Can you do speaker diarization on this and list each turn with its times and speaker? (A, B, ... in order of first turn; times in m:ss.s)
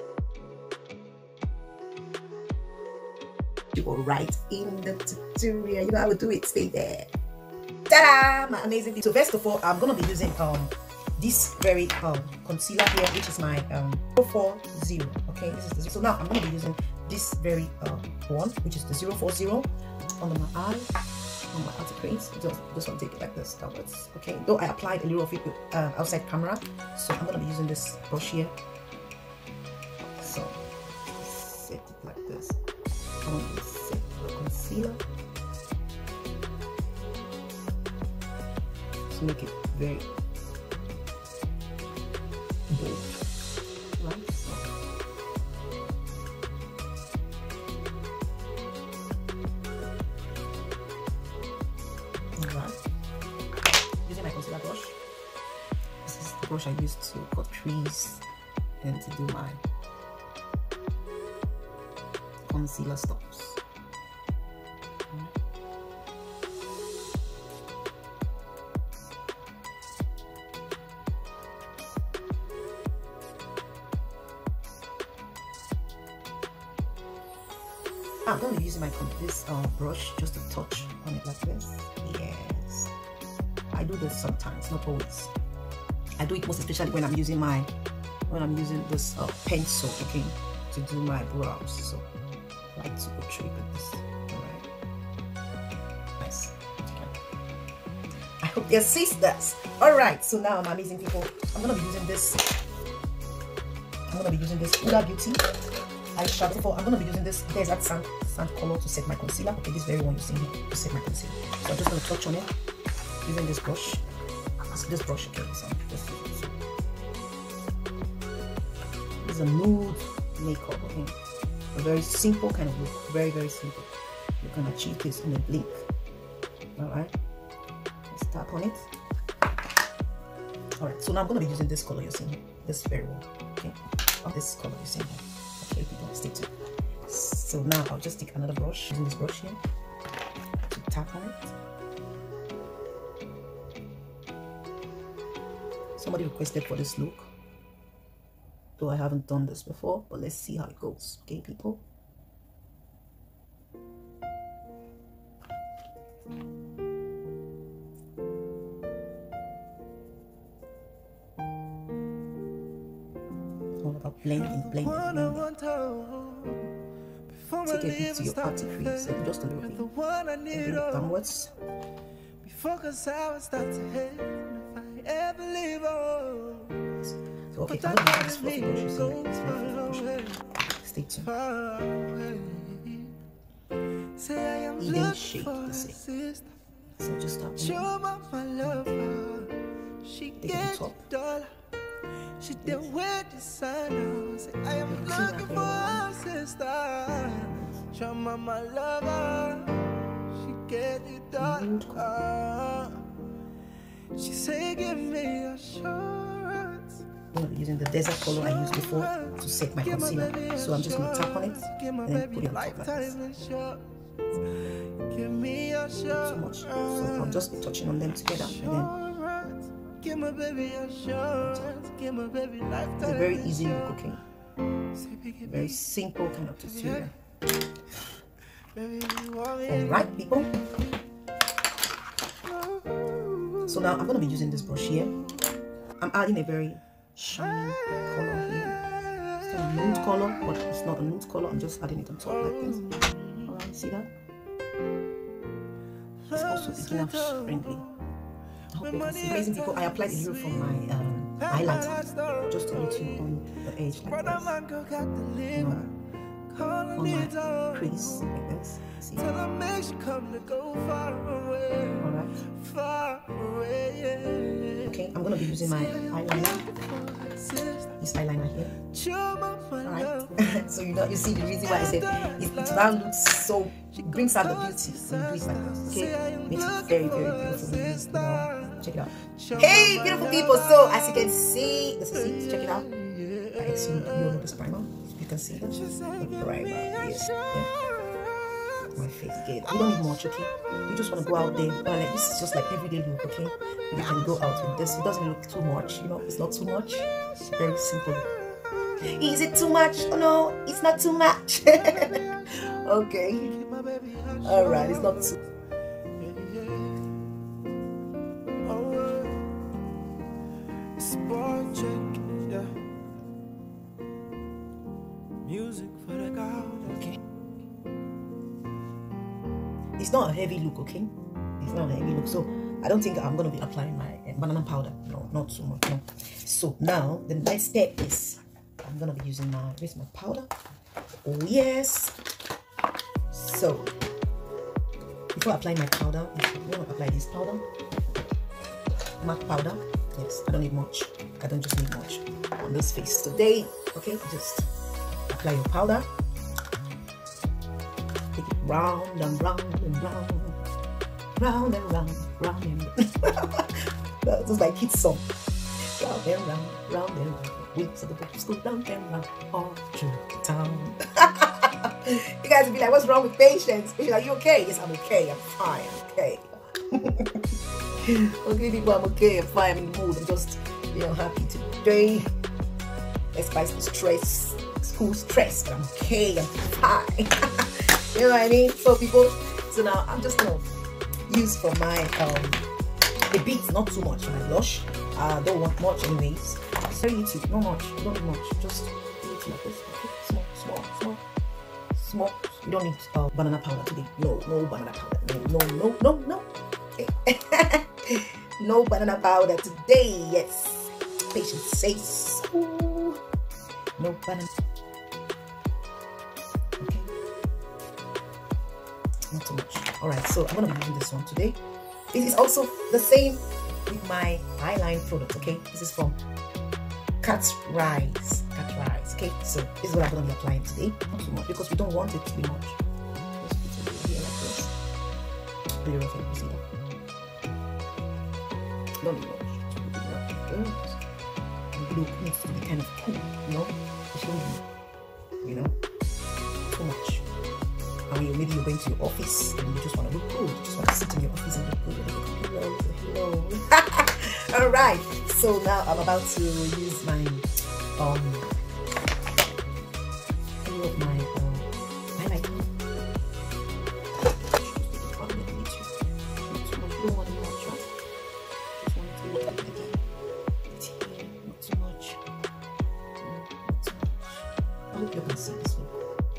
0:03.7-0:07.1 A
0:07.9-0:19.7 A
0:20.2-0:20.9 A
0:21.5-0:28.5 A
0:30.0-0:30.6 A
0:31.2-0:32.6 A
0:33.2-0:35.0 A
0:39.1-0:40.1 A
0:42.7-0:43.1 A
0:44.0-0:44.7 A
0:52.4-0:52.8 A
0:54.0-0:55.0 A
0:56.0-0:58.2 A
0:58.8-0:59.6 A
1:02.4-1:03.6 A
1:18.2-1:22.9 A
1:23.7-1:25.3 A
1:26.2-1:27.7 A
1:28.3-1:32.1 A
1:32.7-1:34.6 A
1:36.2-1:37.1 A
1:38.4-1:42.4 A
1:44.1-1:45.4 A
1:46.1-1:52.5 A
1:53.2-1:54.0 A
1:54.7-1:56.6 A
1:59.2-2:01.2 A
2:01.7-2:05.8 A
2:06.8-2:07.1 A
2:08.1-2:08.9 A
2:10.8-2:16.5 A
2:17.0-2:19.6 A
2:20.7-2:21.5 A
2:26.0-2:27.3 A
2:28.8-2:31.8 A
2:43.8-2:45.5 A
2:44.3-2:46.7 B
2:47.3-2:51.1 B
2:47.6-2:49.9 A
2:50.5-2:51.5 A
2:52.4-2:56.9 B
2:57.0-3:00.1 A
2:57.7-3:00.4 B
3:00.7-3:01.3 A
3:01.2-3:03.2 B
3:04.1-3:06.5 B
3:04.8-3:06.0 A
3:07.0-3:07.9 A
3:07.6-3:11.5 B
3:10.4-3:11.0 A
3:12.4-3:23.1 B
3:14.8-3:16.1 A
3:17.4-3:17.8 A
3:21.4-3:22.1 A
3:24.1-3:27.0 B
3:27.3-3:33.2 A
3:28.4-3:33.9 B
3:35.0-3:37.5 B
3:36.1-3:38.9 A
3:38.3-3:44.0 B
3:41.4-3:41.7 A
3:43.0-3:44.2 A
3:44.9-3:45.9 B
3:45.4-3:47.1 A
3:46.6-3:47.1 B
3:48.7-3:50.7 B
3:49.7-3:50.5 A
3:52.4-3:55.4 B
3:53.6-3:55.2 A
3:56.0-3:58.8 A
3:59.1-3:59.5 B
3:59.4-4:02.8 A
4:02.2-4:03.5 B
4:03.4-4:04.1 A
4:06.3-4:08.0 B
4:06.3-4:07.8 A
4:08.7-4:14.6 A
4:08.8-4:10.8 B
4:11.4-4:13.4 B
4:14.0-4:15.9 B
4:15.5-4:15.9 A
4:16.5-4:18.3 B
4:17.0-4:19.2 A
4:19.2-4:28.0 B
4:22.0-4:22.4 A
4:24.8-4:26.6 A
4:28.0-4:28.8 A
4:28.8-4:30.3 B
4:29.8-4:42.9 A
4:31.6-4:33.1 B
4:33.9-4:41.2 B
4:42.1-4:44.5 B
4:43.5-4:47.7 A
4:45.7-4:48.3 B
4:48.9-4:58.3 A
4:59.0-5:03.6 A
5:01.7-5:02.6 B
5:03.5-5:05.4 B
5:04.4-5:05.4 A
5:06.2-5:07.1 B
5:08.6-5:09.5 B
5:11.0-5:12.8 B
5:15.4-5:17.0 B
5:16.8-5:17.2 A
5:20.0-5:30.5 A
5:31.2-5:32.1 A
5:33.3-5:33.9 A
5:35.3-5:37.6 A
5:39.2-5:44.7 A
5:45.3-5:46.1 A
5:48.3-5:50.6 A
5:51.4-5:55.2 A
5:56.0-6:12.3 A
6:13.3-6:20.7 A
6:21.3-6:22.6 A
6:23.3-6:31.2 A
6:31.9-6:43.2 A
6:44.0-6:44.5 A
6:46.8-6:47.1 A
6:49.3-6:51.6 A
6:52.1-6:56.2 A
6:57.2-7:02.8 A
7:03.4-7:04.7 A
7:05.7-7:06.6 A
7:09.0-7:11.0 A
7:11.7-7:14.6 A
7:15.4-7:15.8 A
7:16.7-7:17.3 A
7:18.1-7:27.4 A
7:28.0-7:28.5 A
7:30.6-7:32.7 A
7:34.3-7:37.9 A
7:38.7-7:40.0 A
7:40.7-7:42.2 A
7:43.2-7:46.0 A